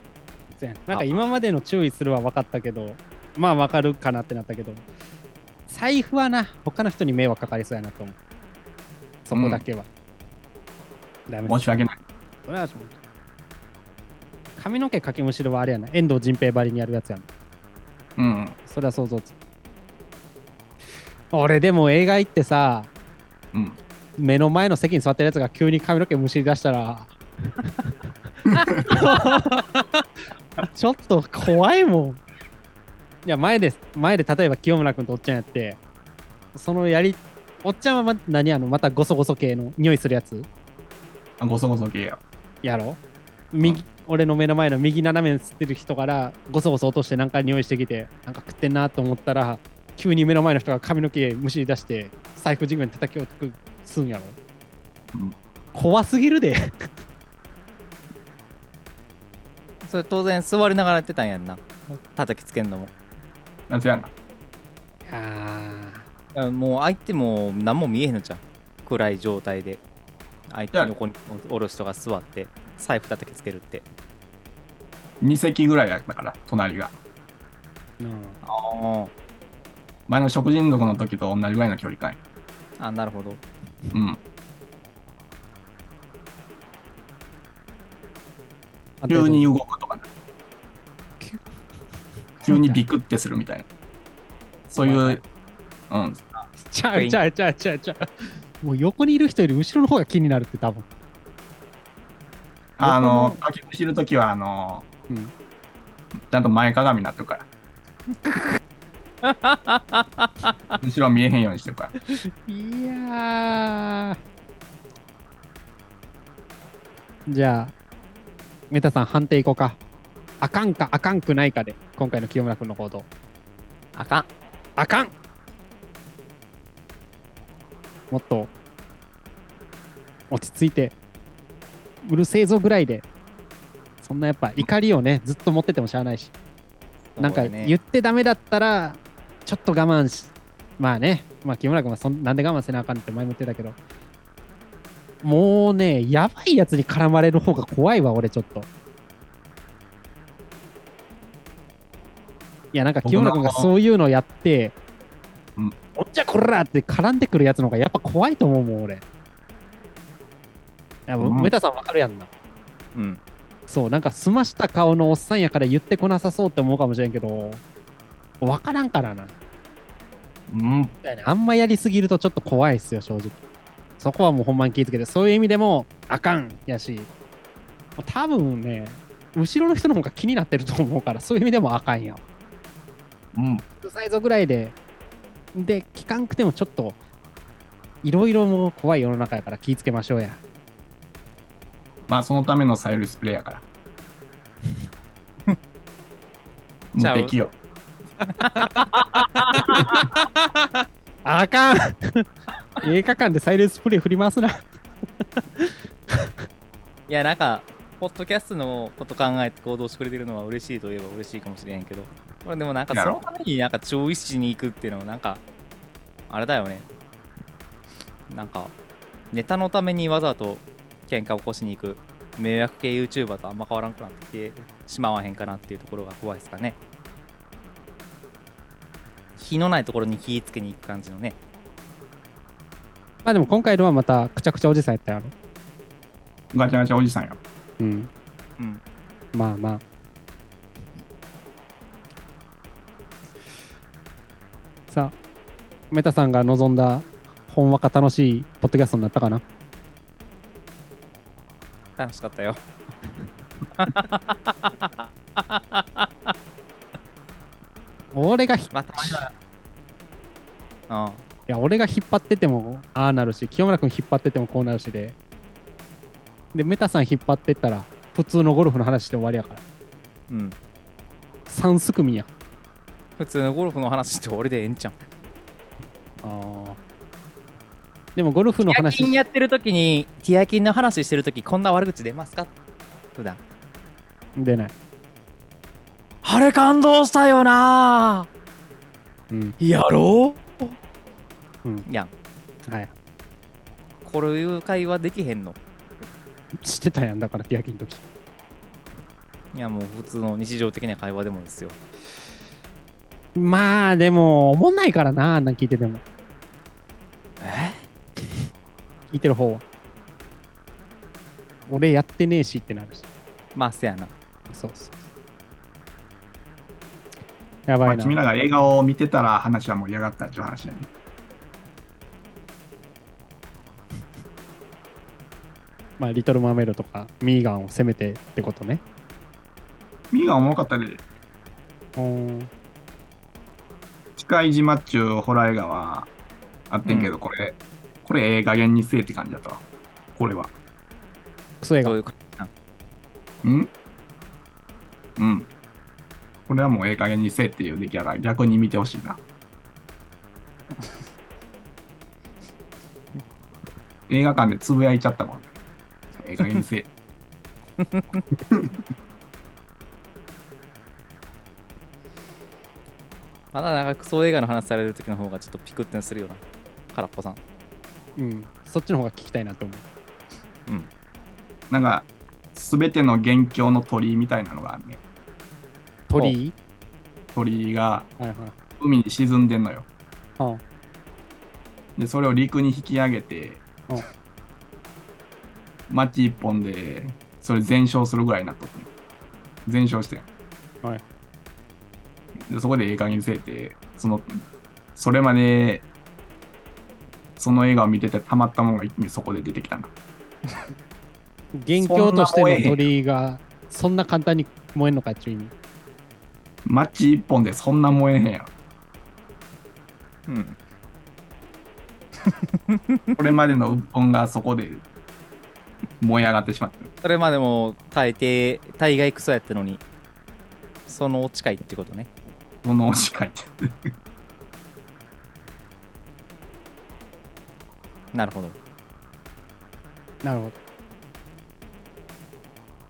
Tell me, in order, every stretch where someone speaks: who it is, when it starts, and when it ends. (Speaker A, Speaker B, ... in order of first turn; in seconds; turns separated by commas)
Speaker A: 0.6-4.8, Speaker B: 0.9-1.2, Speaker A: 5.7-8.2, Speaker A: 9.2-9.9, Speaker C: 9.3-9.6, Speaker A: 11.3-11.6, Speaker C: 11.5-11.9, Speaker A: 12.4-12.9, Speaker A: 14.6-17.3, Speaker C: 18.2-18.6, Speaker A: 18.7-19.3, Speaker A: 21.3-22.9, Speaker C: 23.5-23.8, Speaker A: 24.2-27.7, Speaker A: 28.6-30.0, Speaker A: 30.6-32.2, Speaker A: 33.2-35.8, Speaker A: 36.5-40.5, Speaker C: 41.4-42.2, Speaker A: 42.6-43.0, Speaker A: 43.5-54.4, Speaker A: 55.7-56.9, Speaker B: 59.8-62.9, Speaker C: 63.7-64.1, Speaker A: 65.1-66.0, Speaker B: 66.3-69.8, Speaker B: 70.5-73.8, Speaker C: 75.2-77.0, Speaker A: 78.0-78.4, Speaker B: 78.4-79.1, Speaker C: 80.1-82.2, Speaker B: 82.8-83.4, Speaker C: 83.9-84.2, Speaker A: 89.0-89.5, Speaker C: 89.1-90.1, Speaker A: 92.4-92.8, Speaker C: 92.4-93.7, Speaker C: 94.7-95.2, Speaker A: 94.8-95.2, Speaker C: 95.9-96.3, Speaker A: 96.6-100.8, Speaker B: 96.9-97.2, Speaker C: 102.8-104.8, Speaker A: 102.8-103.4, Speaker C: 106.3-107.5, Speaker A: 108.2-108.6, Speaker B: 109.2-110.5, Speaker C: 110.8-111.9, Speaker A: 112.4-114.2, Speaker A: 117.3-117.7, Speaker A: 118.7-119.8, Speaker A: 120.4-123.1, Speaker B: 124.0-124.2, Speaker A: 124.8-125.1, Speaker A: 128.1-128.5, Speaker A: 130.3-130.9, Speaker A: 132.0-133.1, Speaker A: 134.0-136.3, Speaker B: 137.2-137.7, Speaker A: 137.2-143.8, Speaker A: 145.2-148.7, Speaker A: 152.7-154.7, Speaker C: 153.0-153.7, Speaker A: 155.9-159.0, Speaker A: 161.1-162.3, Speaker C: 161.2-161.5, Speaker B: 162.9-163.2, Speaker A: 163.7-167.6, Speaker A: 168.4-169.3, Speaker C: 170.5-170.9, Speaker A: 171.0-173.4, Speaker A: 174.0-177.1, Speaker A: 178.0-182.2, Speaker C: 183.3-183.6, Speaker A: 183.8-184.8, Speaker A: 185.5-187.0, Speaker A: 188.0-190.4, Speaker C: 192.1-193.6, Speaker C: 196.9-197.5, Speaker B: 197.0-197.3, Speaker B: 198.4-200.0, Speaker A: 198.6-198.8, Speaker A: 199.5-202.2, Speaker A: 202.8-204.7, Speaker A: 205.4-206.3, Speaker B: 207.1-215.4, Speaker C: 212.9-213.2, Speaker B: 216.3-216.9, Speaker B: 218.3-218.7, Speaker B: 219.3-226.8, Speaker B: 229.4-231.3, Speaker A: 233.2-235.3, Speaker C: 236.5-237.4, Speaker A: 237.8-238.1, Speaker A: 239.3-239.8, Speaker A: 244.9-245.1, Speaker A: 245.9-249.4, Speaker B: 252.0-252.6, Speaker B: 253.8-256.3, Speaker A: 258.1-259.2, Speaker B: 258.7-259.3, Speaker B: 260.9-261.2, Speaker A: 261.5-265.1, Speaker A: 266.5-269.6, Speaker B: 270.3-270.6, Speaker A: 271.5-272.3, Speaker B: 273.2-275.0, Speaker A: 276.2-276.8, Speaker A: 278.1-279.2, Speaker B: 278.7-282.5, Speaker A: 284.4-284.7, Speaker B: 286.2-288.3, Speaker A: 289.3-289.6, Speaker B: 289.6-290.7, Speaker A: 292.7-292.9, Speaker B: 294.0-295.6, Speaker A: 296.6-298.0, Speaker B: 299.5-301.8, Speaker A: 303.3-306.0, Speaker B: 307.4-307.8, Speaker A: 309.1-309.6, Speaker A: 311.7-313.0, Speaker B: 313.5-314.1, Speaker A: 314.5-315.0, Speaker A: 317.7-318.2, Speaker C: 317.8-320.9, Speaker A: 326.0-328.8, Speaker C: 330.1-331.0, Speaker A: 331.9-332.5, Speaker C: 334.2-336.1, Speaker C: 336.7-339.6, Speaker B: 336.8-337.1, Speaker C: 340.1-340.5, Speaker A: 341.6-342.0, Speaker B: 341.8-342.5, Speaker C: 343.4-343.7, Speaker C: 345.2-345.5, Speaker C: 346.5-349.2, Speaker C: 354.1-355.5, Speaker C: 356.2-356.9, Speaker B: 357.8-358.2, Speaker B: 363.5-366.4, Speaker B: 366.9-367.4, Speaker A: 368.2-369.8, Speaker C: 371.7-375.0, Speaker A: 376.1-376.5, Speaker C: 377.3-378.1, Speaker A: 378.2-378.5, Speaker C: 378.8-379.9, Speaker C: 382.0-383.6, Speaker C: 385.9-388.9, Speaker C: 389.6-390.2, Speaker C: 392.5-394.4, Speaker C: 394.9-395.9, Speaker C: 397.4-399.9, Speaker A: 401.6-405.5, Speaker C: 401.8-402.8, Speaker C: 406.6-408.5, Speaker B: 410.3-410.6, Speaker B: 412.2-413.2, Speaker C: 413.1-414.8, Speaker C: 416.0-416.9, Speaker B: 417.0-419.8, Speaker B: 420.9-422.1, Speaker C: 422.6-423.9, Speaker B: 428.1-428.6, Speaker A: 430.2-430.6